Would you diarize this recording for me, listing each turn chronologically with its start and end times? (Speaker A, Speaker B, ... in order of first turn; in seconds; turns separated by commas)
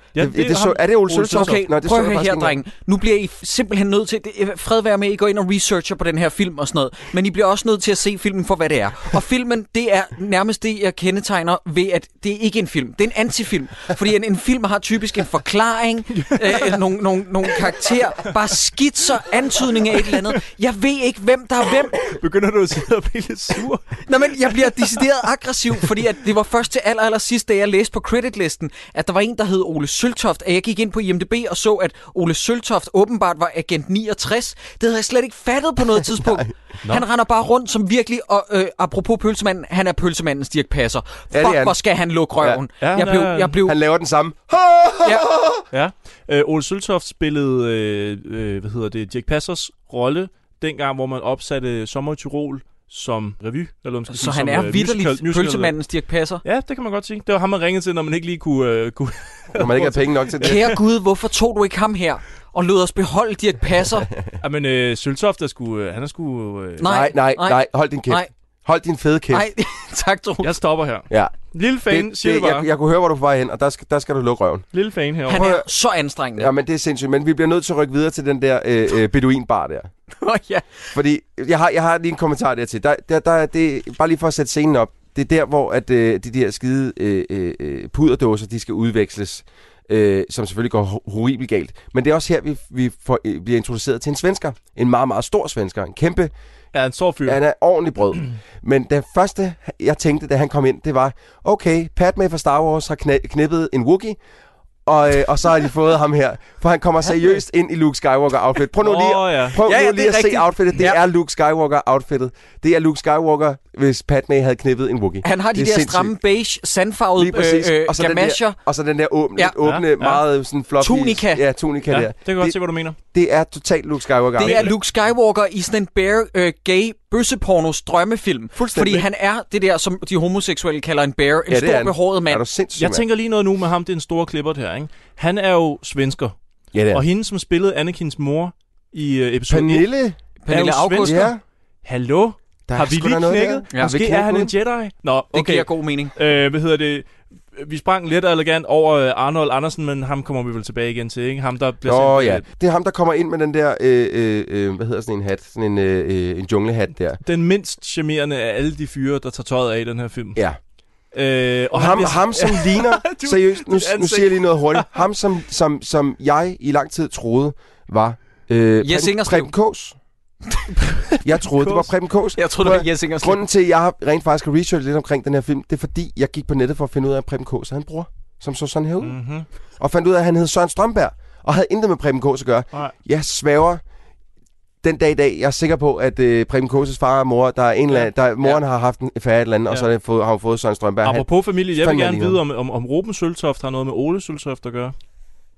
Speaker A: 0.1-1.6, Speaker B: 0.2-2.6, Speaker C: 1.3-22.1, Speaker A: 16.2-16.8, Speaker A: 21.9-24.6, Speaker C: 24.1-43.8, Speaker B: 36.1-36.5, Speaker B: 41.3-41.8, Speaker A: 42.8-43.6, Speaker B: 43.6-45.6, Speaker A: 45.7-55.7, Speaker C: 54.1-56.4, Speaker A: 56.4-60.8, Speaker B: 59.5-60.7, Speaker C: 60.4-64.1, Speaker A: 64.4-66.9, Speaker C: 66.8-68.3, Speaker B: 66.8-69.5, Speaker C: 69.3-70.5, Speaker A: 70.4-72.7, Speaker B: 71.1-74.7, Speaker A: 74.7-75.5, Speaker C: 75.3-76.5, Speaker B: 75.3-75.6, Speaker B: 76.4-79.9, Speaker C: 80.2-80.7, Speaker B: 80.9-96.3, Speaker A: 96.7-97.4, Speaker B: 97.2-104.2, Speaker B: 104.9-116.2, Speaker A: 108.8-109.6, Speaker C: 109.6-111.0, Speaker C: 115.2-118.6, Speaker B: 117.2-122.6, Speaker A: 119.6-120.2, Speaker C: 120.8-121.4, Speaker A: 121.9-123.0, Speaker B: 123.1-124.7, Speaker C: 124.4-132.4, Speaker A: 124.4-124.8, Speaker B: 128.6-129.1, Speaker B: 131.5-133.1, Speaker A: 132.8-136.3, Speaker B: 136.7-137.0, Speaker A: 136.9-139.9, Speaker B: 139.5-140.2, Speaker C: 140.4-141.3, Speaker A: 140.5-141.3, Speaker B: 141.0-141.4, Speaker A: 141.8-152.4, Speaker B: 142.7-144.5, Speaker C: 145.3-146.1, Speaker B: 151.8-157.2, Speaker A: 157.2-160.4, Speaker A: 161.1-165.1, Speaker B: 161.7-170.0, Speaker C: 168.8-169.5, Speaker B: 171.2-179.2, Speaker A: 171.5-171.9, Speaker C: 172.4-173.5, Speaker A: 179.0-179.5, Speaker B: 179.8-183.8, Speaker B: 184.8-192.4, Speaker A: 191.1-194.9